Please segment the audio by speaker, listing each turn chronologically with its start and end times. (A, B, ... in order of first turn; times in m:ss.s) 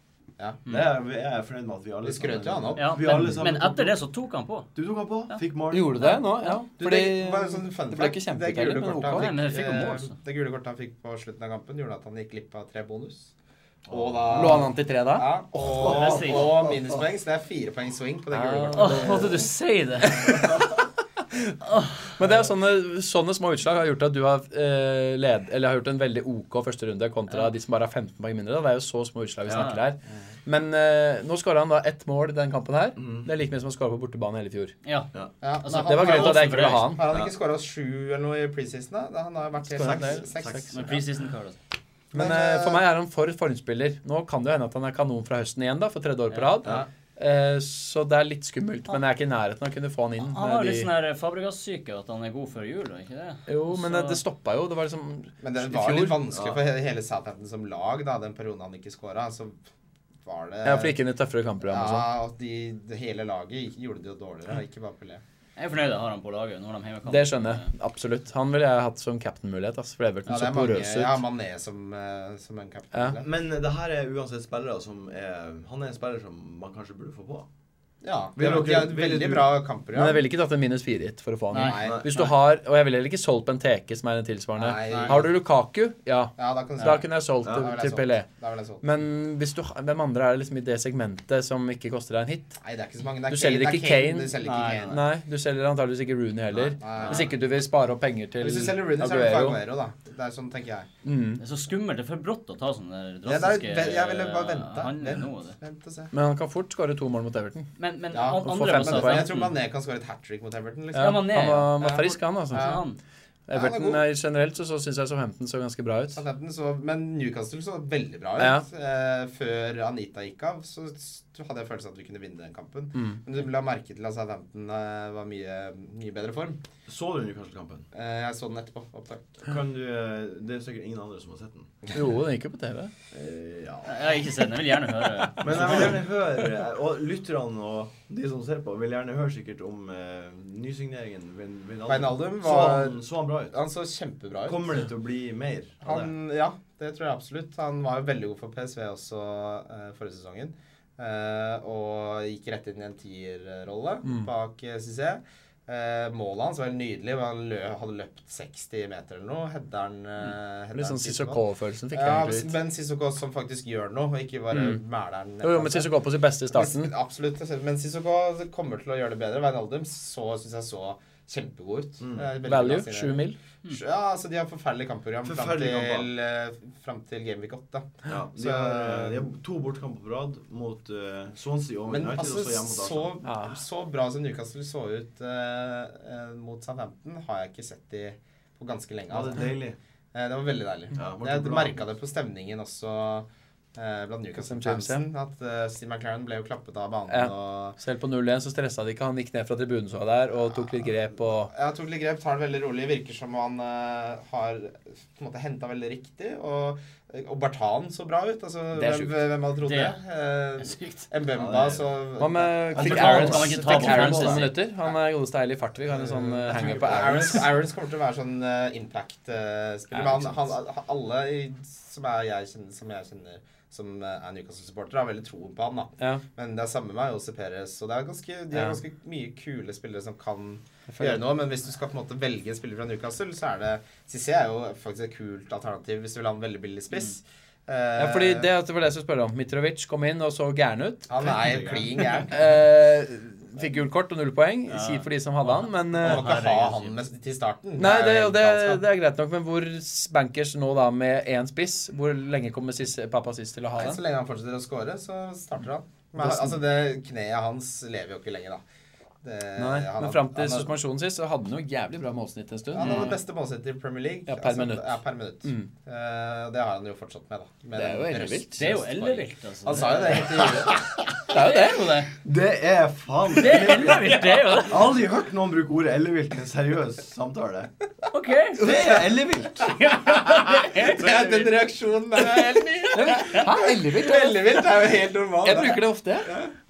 0:00.7-0:04.0 A
0:02.0-0:03.3 B
0:02.8-0:04.7 C
0:04.8-0:06.1 A
0:05.7-0:09.4 D
0:06.8-0:13.3 B
0:09.1-0:10.2 C
0:13.9-0:14.6 A
0:13.9-0:19.5 B
0:14.3-0:15.3 D
0:15.6-0:17.0 A
0:15.8-0:16.5 C
0:18.3-0:19.4 D
0:18.7-0:20.5 C
0:20.0-0:20.6 D
0:22.2-0:34.8 D
0:29.5-0:29.7 A
0:29.5-0:29.8 C
0:33.0-0:33.3 A
0:34.8-0:35.1 C
0:35.4-0:41.0 B
0:35.6-0:36.9 C
0:35.8-0:37.0 D
0:39.6-0:40.8 D
0:39.8-0:41.0 A
0:40.7-0:41.6 C
0:42.1-0:42.8 B
0:42.1-0:50.9 D
0:50.2-0:54.2 C
0:53.5-0:56.2 D
0:55.4-0:59.6 B
0:56.3-0:56.6 A
1:00.2-1:01.0 B
1:00.6-1:02.1 D
1:01.6-1:05.2 B
1:05.6-1:07.7 C
1:07.1-1:11.2 D
1:10.3-1:13.3 B
1:13.2-1:17.5 A
1:18.0-1:20.2 B
1:18.4-1:19.6 A
1:19.9-1:28.3 D
1:21.5-1:22.3 C
1:21.6-1:22.0 B
1:24.6-1:25.3 B
1:26.4-1:28.8 B
1:28.8-1:32.6 D
1:32.6-1:35.0 B
1:33.3-1:39.6 D
1:34.4-1:35.0 C
1:36.5-1:37.3 B
1:36.8-1:37.3 A
1:38.4-1:40.9 B
1:41.0-1:41.4 D
1:41.4-1:45.6 C
1:43.2-1:46.1 B
1:46.1-1:47.7 D
1:47.8-1:49.6 C
1:48.1-1:52.8 B
1:48.4-1:49.3 D
1:50.9-1:52.8 D
1:51.0-1:51.7 C
1:52.5-1:53.0 C
1:53.5-1:56.2 D
1:53.5-1:54.0 B
1:56.2-2:06.6 B
1:58.4-1:58.6 D
2:02.9-2:03.2 D
2:06.9-2:07.9 A
2:07.9-2:09.5 B
2:09.5-2:11.7 A
2:11.9-2:12.9 D
2:13.1-2:14.2 A
2:13.8-2:16.0 C
2:15.4-2:23.6 A
2:21.9-2:23.0 B
2:23.5-2:24.8 B
2:24.4-2:26.1 A
2:25.8-2:41.4 B
2:34.0-2:34.3 D
2:40.7-2:42.5 D
2:41.9-2:45.9 B
2:44.5-2:44.8 D
2:45.4-2:46.9 D
2:46.5-2:59.3 B
2:52.0-2:52.3 A
2:52.4-2:53.4 D
2:55.2-2:56.1 A
2:58.1-3:03.1 A
3:01.9-3:09.6 B
3:03.2-3:03.6 D
3:09.1-3:09.8 A
3:10.1-3:17.8 B
3:11.0-3:11.8 A
3:14.4-3:15.1 D
3:17.1-3:21.5 D
3:21.5-3:32.6 B
3:28.7-3:29.2 D
3:29.6-3:30.0 C
3:30.6-3:31.1 C
3:31.3-3:31.9 A
3:32.2-3:37.6 D
3:32.7-3:34.5 A
3:32.8-3:34.6 C
3:35.9-3:58.5 B
3:36.6-3:37.0 A
3:46.0-3:46.2 D
3:48.5-3:48.8 D
3:50.9-3:51.2 D
3:58.0-4:01.1 D
4:01.1-4:02.4 B
4:01.2-4:02.0 A
4:02.3-4:06.2 D
4:04.7-4:07.0 C
4:06.0-4:08.8 B
4:07.8-4:14.0 D
4:13.8-4:18.6 B
4:16.2-4:16.6 D
4:19.2-4:20.7 B
4:19.6-4:23.2 D
4:22.7-4:30.8 B
4:22.8-4:23.2 C
4:24.3-4:25.7 D
4:27.7-4:28.7 D
4:28.6-4:30.8 C
4:31.3-4:32.1 D
4:31.3-4:32.1 C
4:32.2-4:37.7 A
4:33.4-4:35.0 C
4:38.1-4:38.7 C
4:38.6-4:39.8 A
4:38.6-4:46.5 B
4:39.6-4:41.6 C
4:42.9-4:44.7 D
4:45.4-4:46.3 D